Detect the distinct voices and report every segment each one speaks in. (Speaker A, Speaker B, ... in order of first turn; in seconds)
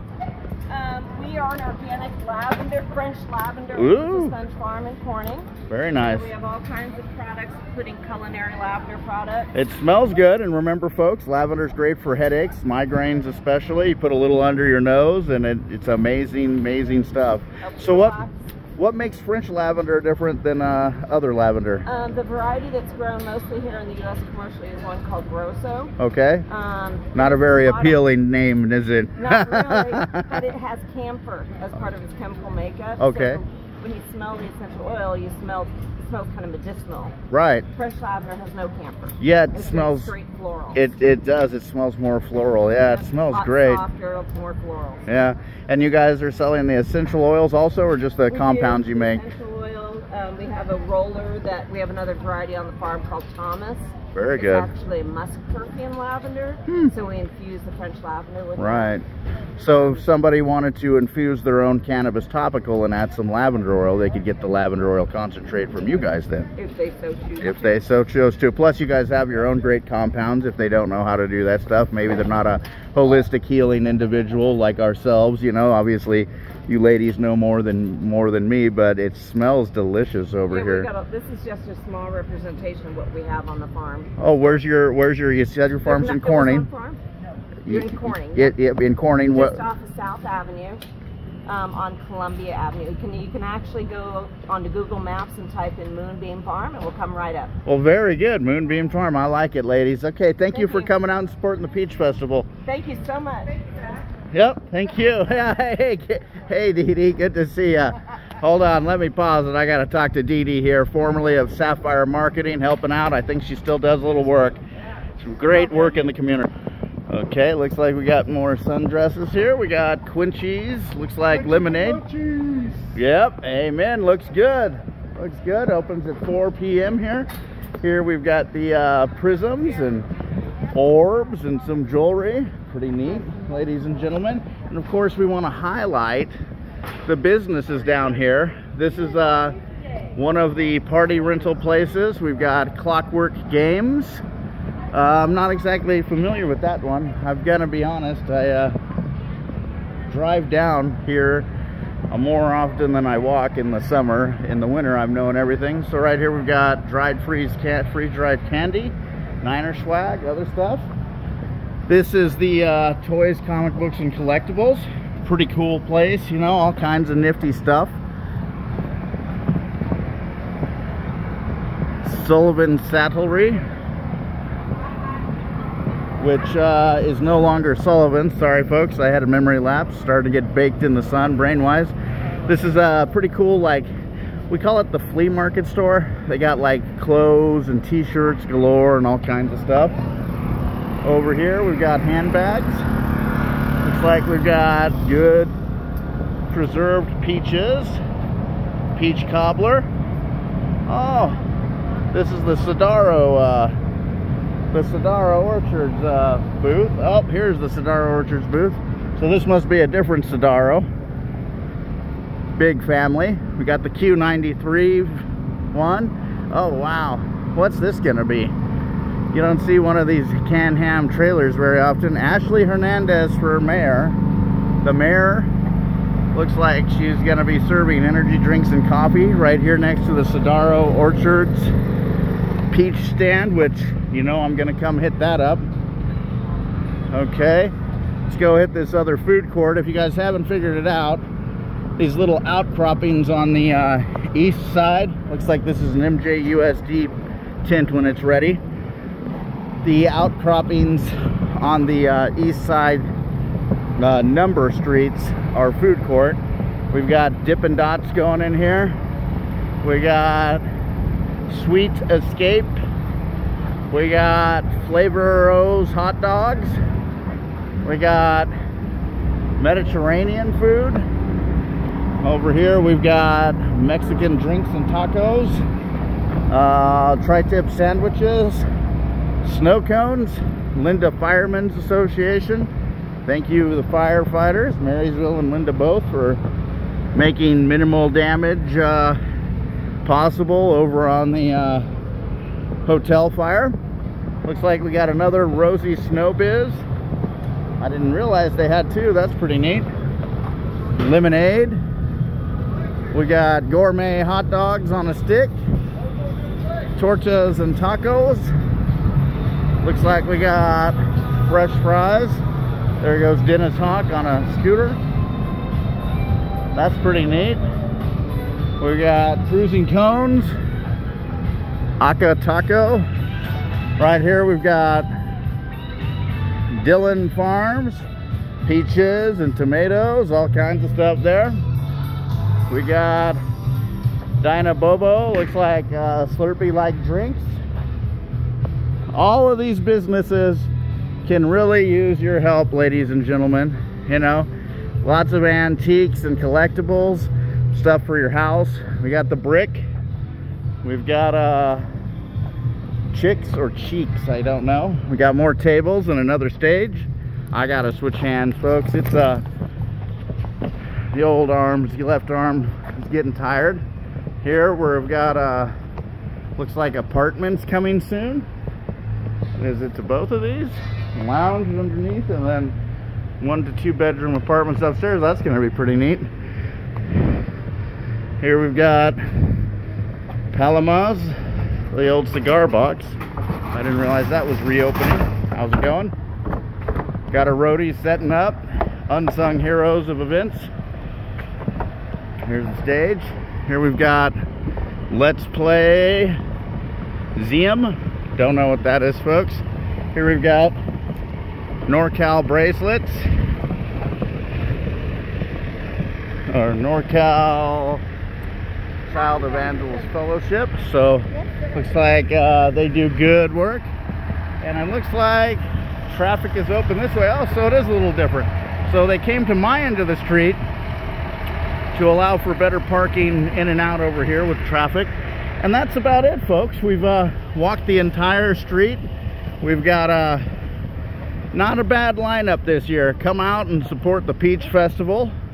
Speaker A: 0.7-9.6, 17.6-18.5, 21.8-25.9, 26.5-28.0, 29.2-37.1, 37.7-40.9, 42.9-45.0, 48.3-58.9, 66.5-67.7, 80.5-84.1, 85.8-87.0, 87.7-88.5, 89.3-90.8, 91.5-97.5, 100.5-100.9, 102.7-103.5
Speaker B: 3.7-4.3, 5.7-6.3, 9.5-18.2, 18.8-21.8, 26.0-26.4, 27.1-30.4, 33.0-33.4, 37.3-37.6, 39.2-40.1, 40.7-43.8, 45.1-49.2, 54.1-54.7, 58.6-59.0, 59.6-66.5, 67.4-80.9, 84.2-86.7, 87.6-89.6, 97.7-102.5, 104.3-114.6, 115.2-116.5, 117.1-122.1, 122.9-127.3, 127.8-130.1, 130.7-136.3, 137.1-139.6, 140.2-144.2, 144.9-148.8, 150.1-151.5, 152.1-160.9, 161.9-168.0, 172.0-173.6, 176.2-181.9, 182.5-183.9, 184.5-189.9, 191.0-192.8, 193.8-195.5, 196.5-198.0, 198.9-199.9, 200.9-201.4, 202.1-203.7, 204.7-210.9, 212.6-218.5, 219.3-224.2, 224.8-225.5, 226.3-231.7, 232.7-235.7, 237.1-237.7, 238.3-241.2, 242.0-248.6, 249.8-253.1, 254.0-259.0, 259.8-260.6, 261.5-262.8, 263.9-266.8, 267.8-268.5, 269.6-271.1, 272.2-275.6, 276.5-278.6, 279.4-282.7, 283.2-286.4, 287.1-289.2, 290.0-291.9, 292.8-293.8, 294.4-296.8, 297.8-299.9, 301.0-301.8, 303.1-305.6, 306.9-308.5, 309.8-312.4, 313.0-315.0, 316.7-317.6, 318.8-320.5, 322.0-323.1, 324.0-325.1, 326.7-328.0, 328.6-331.6, 332.7-333.4, 334.4-337.6, 339.1-340.7, 341.2-344.5, 345.0-349.9, 350.8-351.8, 353.1-359.4, 361.1-363.8, 364.4-365.7, 366.6-368.5, 369.6-372.8, 373.4-376.3, 378.4-379.5, 380.5-381.3, 381.9-383.2, 383.7-386.1, 387.3-390.7, 392.4-394.4, 395.1-396.4, 397.4-400.8, 401.9-403.3, 406.5-408.0, 409.1-413.9, 414.6-420.6, 421.9-429.0, 429.6-430.4, 431.5-435.3